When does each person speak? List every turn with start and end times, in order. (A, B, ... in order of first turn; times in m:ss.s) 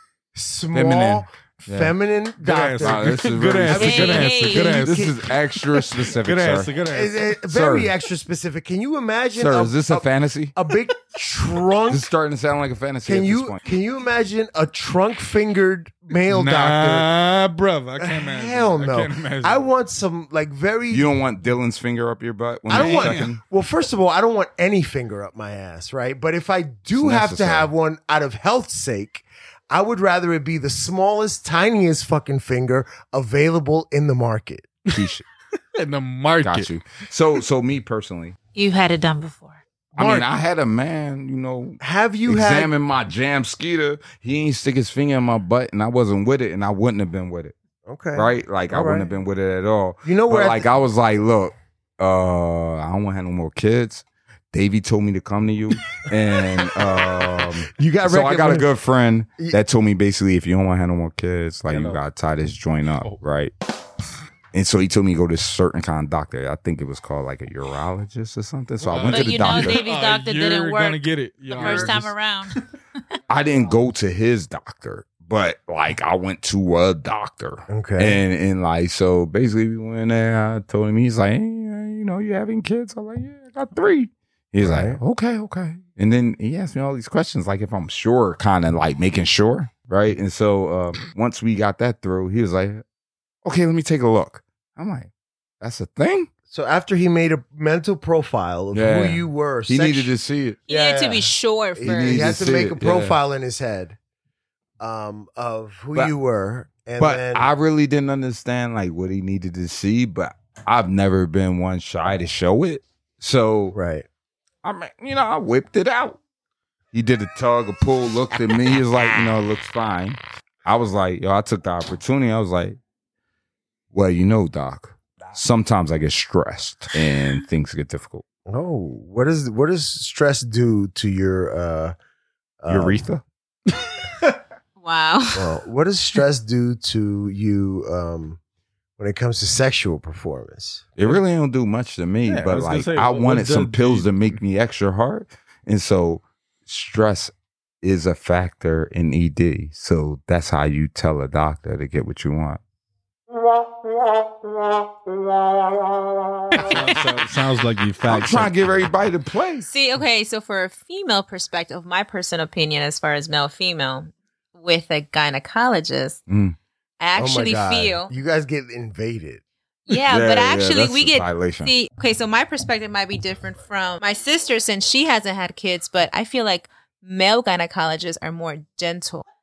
0:00.3-0:05.3 A
0:00.7-0:01.9 B
0:02.4-0:05.1 C
0:02.8-0:06.7 B
0:03.8-0:04.7 D
0:03.9-0:04.6 E
0:06.0-0:07.4 C
0:06.8-0:12.1 A
0:07.5-0:07.9 B
0:09.3-0:10.6 B
0:11.9-0:13.6 B
0:13.0-0:17.1 A
0:16.2-0:19.7 C
0:18.0-0:21.1 A
0:20.9-0:23.4 B
0:22.7-0:23.4 C
0:22.7-0:34.7 A
0:26.9-0:27.7 B
0:34.9-0:35.2 B
0:35.7-0:36.7 C
0:36.4-0:38.4 B
0:38.5-0:39.6 E
0:39.9-0:47.5 B
0:40.0-0:40.3 A
0:41.8-0:42.7 A
0:47.8-0:49.1 A
0:48.1-1:03.5 B
0:50.0-0:50.7 A
0:56.6-0:57.0 A
0:57.7-0:58.7 A
1:01.7-1:02.0 C
1:04.5-1:09.8 B
1:08.8-1:12.6 C
1:09.1-1:12.6 E
1:11.6-1:11.9 A
1:13.3-1:32.8 B
1:17.7-1:18.2 A
1:24.6-1:25.0 A
1:33.4-1:35.1 B
1:35.6-1:36.3 B
1:36.5-1:40.1 A
1:38.7-1:40.6 B
1:40.7-1:42.3 D
1:40.7-1:44.0 A
1:41.8-1:43.2 B
1:44.8-1:47.5 A
1:47.0-1:53.8 B
1:53.7-1:54.1 A
1:54.6-1:56.2 B
1:56.9-2:02.8 B
2:03.9-2:08.2 B
2:08.5-2:11.9 A
2:12.6-2:13.1 A
2:12.7-2:13.2 B
2:14.8-2:15.5 D
2:15.3-2:18.4 A
2:19.0-2:20.9 A
2:21.0-2:32.6 B
2:22.3-2:24.2 C
2:36.6-2:38.5 C
2:38.0-2:39.7 B
2:39.6-2:46.2 D
2:46.3-2:46.6 B
2:47.0-2:48.1 D
2:47.1-2:49.4 A
2:49.9-2:59.2 D
2:49.9-2:51.7 B